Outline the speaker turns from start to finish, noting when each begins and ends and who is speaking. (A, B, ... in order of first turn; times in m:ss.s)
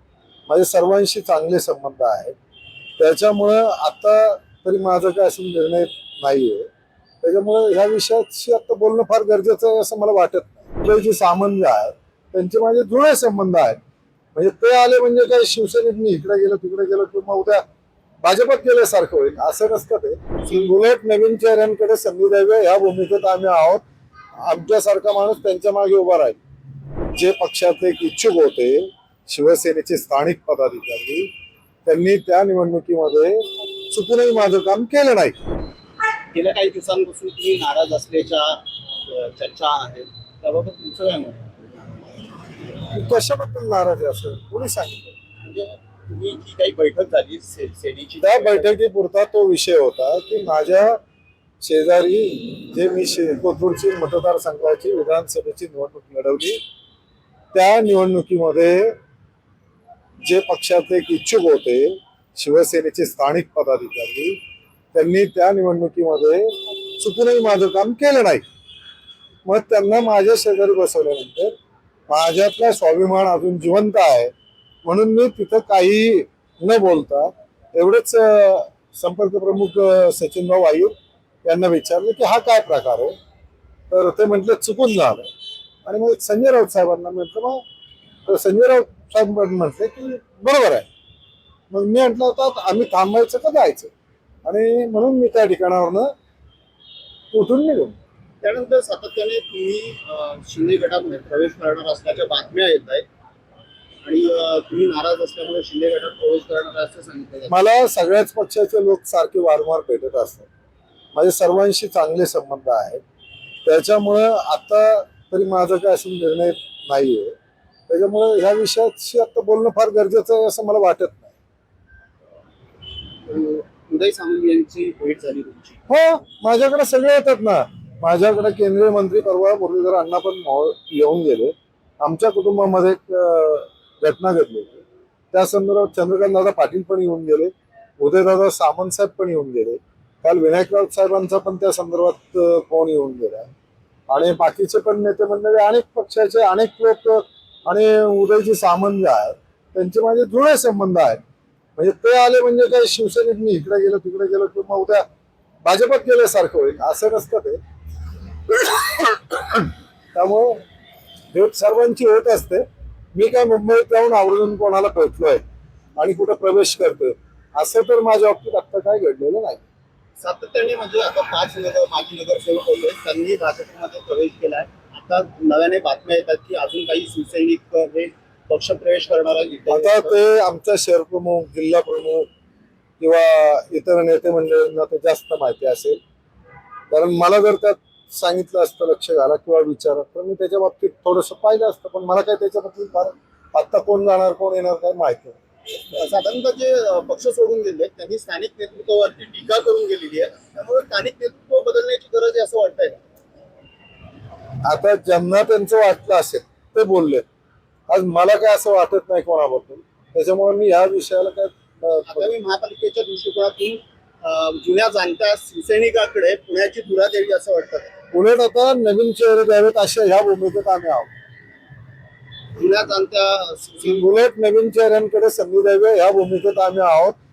0:00.5-0:02.3 A
0:03.0-0:06.7 A
0:07.2-0:13.8 A
0:14.3-0:17.6 A
0:18.2-0:23.8 A
0:24.4-0:26.4 A
0:27.1-0:31.3 A
0:31.8-0:35.3 A
0:36.3-0:41.5 B
0:42.9-0:45.1 A
0:45.4-0:48.7 B
0:48.2-0:51.0 A
0:51.6-0:56.6 A
0:57.5-0:59.0 A
1:00.2-1:04.4 A
1:04.9-1:08.4 A
1:09.4-1:11.5 A
1:12.1-1:14.3 A
1:14.8-1:20.9 A
1:21.4-1:23.1 A
1:23.9-1:25.3 A
1:25.8-1:27.6 A
1:28.2-1:30.8 A
1:31.7-1:33.9 A
1:34.4-1:36.1 A
1:37.3-1:38.0 A
1:38.4-1:43.0 B
1:44.0-1:47.5 B
1:47.5-1:50.5 A
1:51.1-1:53.0 A
1:53.6-1:57.3 A
1:57.9-2:01.3 A
2:03.2-2:05.8 B
2:05.9-2:23.5 A
2:24.1-2:31.2 A
2:31.8-2:35.0 A
2:35.6-2:37.6 A
2:38.5-2:40.6 A
2:41.3-2:42.6 A
2:43.1-2:45.4 A
2:46.0-2:49.6 A
2:50.2-3:00.2 B
2:59.7-3:02.3 A
3:03.0-3:06.0 A
3:06.9-3:15.4 A
3:15.8-3:23.0 B
3:24.6-3:27.2 A
3:27.9-3:32.3 A
3:32.0-3:37.9 B
3:38.1-3:41.1 A
3:42.6-3:44.0 B
3:43.8-3:47.2 A